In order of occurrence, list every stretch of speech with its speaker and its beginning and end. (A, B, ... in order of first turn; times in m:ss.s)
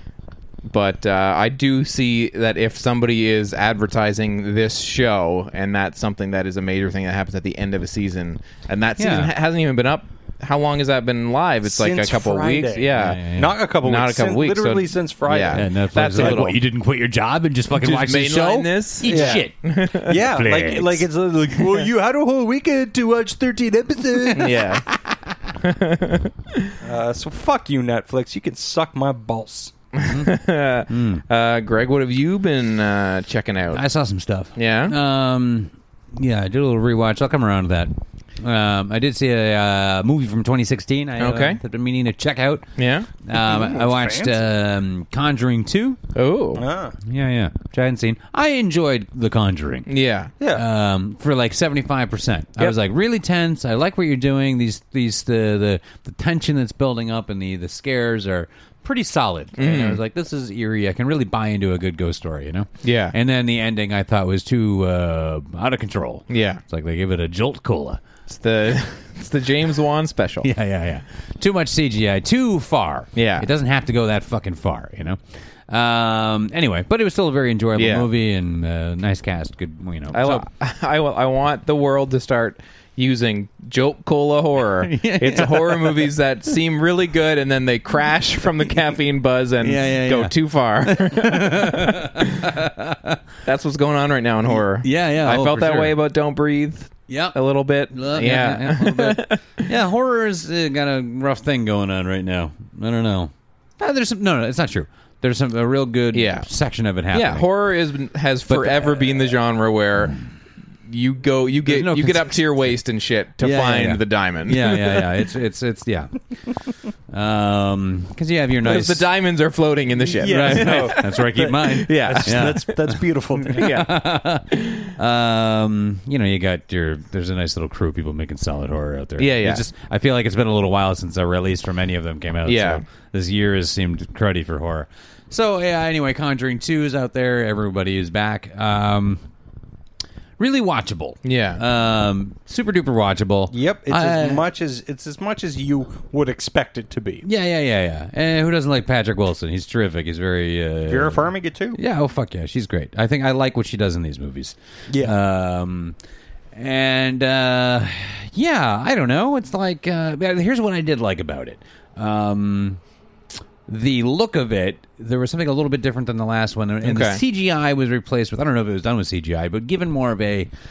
0:00.7-0:13.2 A
0:09.0-0:09.3 B
0:11.6-0:16.5 C
0:12.9-0:13.6 B
0:13.8-0:16.6 A
0:15.5-0:19.6 B
0:17.7-0:20.1 A
0:19.0-0:19.4 C
0:20.0-0:24.5 C
0:20.1-0:21.0 B
0:24.2-0:25.3 B
0:24.4-0:24.9 A
0:25.6-0:26.7 A
0:26.8-0:29.7 C
0:30.0-0:33.8 A
0:30.0-0:30.3 B
0:30.9-0:31.2 B
0:33.7-0:42.6 B
0:34.6-0:34.9 A
0:41.2-0:41.6 A
0:42.8-0:43.1 A
0:43.2-0:46.0 B
0:43.3-0:44.4 C
0:46.1-0:46.6 A
0:46.6-0:47.0 C
0:47.0-0:49.9 B
0:49.9-0:50.3 A
0:50.5-1:08.0 B
0:59.6-1:00.0 A
1:02.8-1:03.1 A
1:06.3-1:06.6 A
1:08.3-1:10.5 A
1:10.4-1:20.4 B
1:13.1-1:13.5 A
1:17.8-1:18.1 A
1:20.1-1:32.5 A
1:24.8-1:26.1 B
1:29.6-1:33.2 B
1:33.4-1:39.6 A
1:34.5-1:36.0 B
1:37.1-1:37.4 B
1:37.9-1:47.4 B
1:46.1-1:46.5 A
1:47.1-1:50.2 A
1:48.5-1:49.3 B
1:50.9-1:55.1 A
1:51.6-1:52.4 B
1:53.4-1:59.1 B
1:58.6-2:02.6 A
2:00.2-2:02.8 B
2:00.2-2:03.7 C
2:03.5-2:19.2 B
2:03.6-2:04.0 A
2:09.2-2:09.6 A
2:12.4-2:12.8 A
2:20.4-2:24.4 B
2:21.2-2:21.6 A
2:23.5-2:27.2 C
2:27.2-2:36.0 B
2:30.9-2:31.8 C
2:34.9-2:35.2 C
2:36.5-2:42.8 B
2:43.7-2:50.5 B
2:46.8-2:47.2 A